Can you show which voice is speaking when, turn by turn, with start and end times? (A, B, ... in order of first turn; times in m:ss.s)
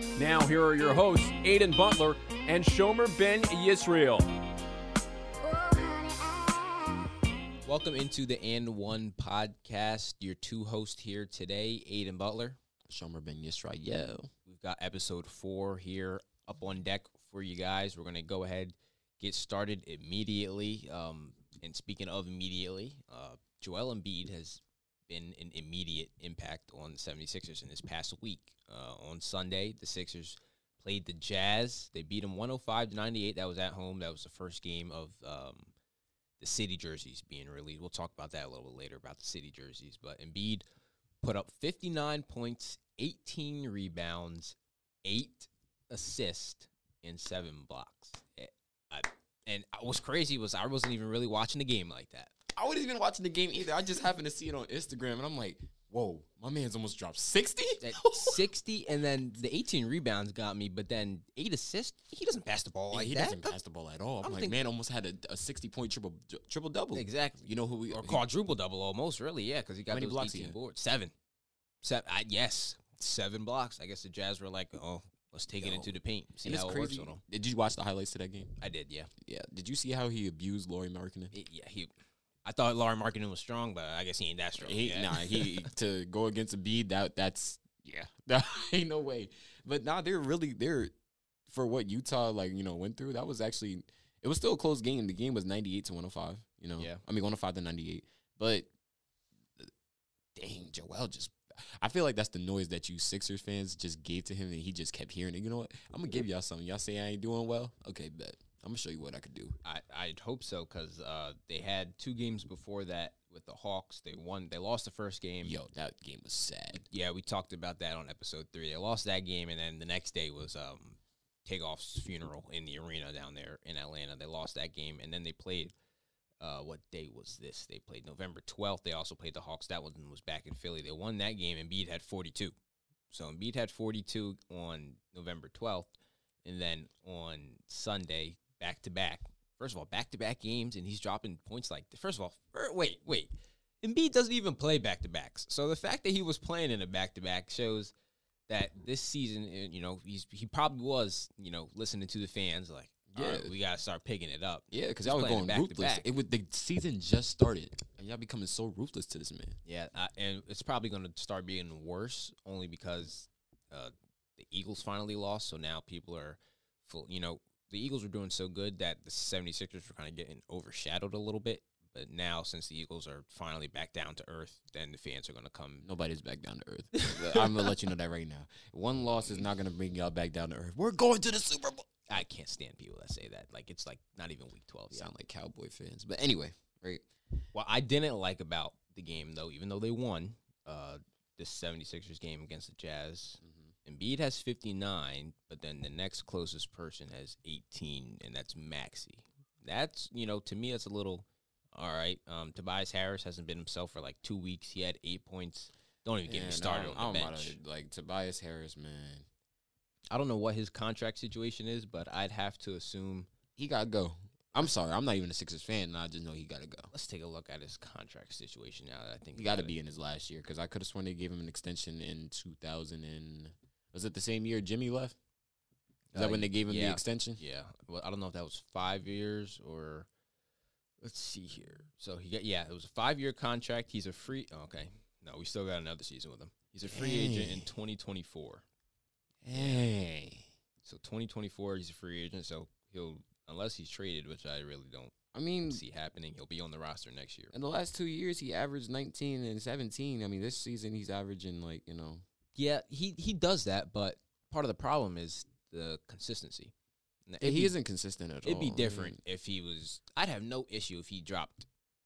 0:00.2-0:04.3 A
0:07.6-0:12.6 B
0:12.9-0:14.3 C
0:14.4-0:35.7 B
0:36.4-0:40.6 B
0:41.2-0:52.3 B
0:52.5-0:58.4 C
0:57.8-1:03.6 B
1:02.9-1:08.2 C
1:04.2-1:04.6 B
1:06.9-1:11.1 B
1:09.9-1:10.6 C
1:11.8-1:17.2 B
1:15.6-1:18.5 C
1:18.6-1:19.1 B
1:19.2-1:21.3 C
1:21.3-1:21.9 B
1:22.4-1:25.7 B
1:24.6-1:30.9 C
1:31.5-1:38.7 C
1:40.3-1:49.6 C
1:49.6-1:55.6 B
1:55.4-1:56.8 C
1:56.8-2:05.7 B
2:06.4-2:12.5 B
2:13.1-2:15.9 B
2:16.4-2:27.9 B
2:28.5-2:36.1 B
2:33.1-2:33.6 C
2:34.7-2:39.6 C
2:39.6-2:55.9 B
2:55.8-3:01.9 C
2:57.0-2:57.7 B
3:02.1-3:05.1 B
3:04.9-3:07.0 C
3:07.5-3:27.6 B
3:13.4-3:13.7 C
3:26.3-3:29.3 C
3:30.1-3:33.3 B
3:33.6-3:36.9 C
3:36.9-3:39.7 B
3:39.3-3:45.2 C
3:46.1-3:50.1 B
3:46.1-3:47.4 C
3:51.0-3:58.6 B
3:56.9-3:57.7 C
3:59.4-4:00.5 C
3:59.5-3:59.8 B
4:00.8-4:05.2 B
4:05.3-4:05.8 C
4:05.7-4:07.5 B
4:07.5-4:12.2 C
4:12.6-4:16.7 B
4:17.3-4:17.7 B
4:17.4-4:19.2 C
4:18.4-4:21.7 B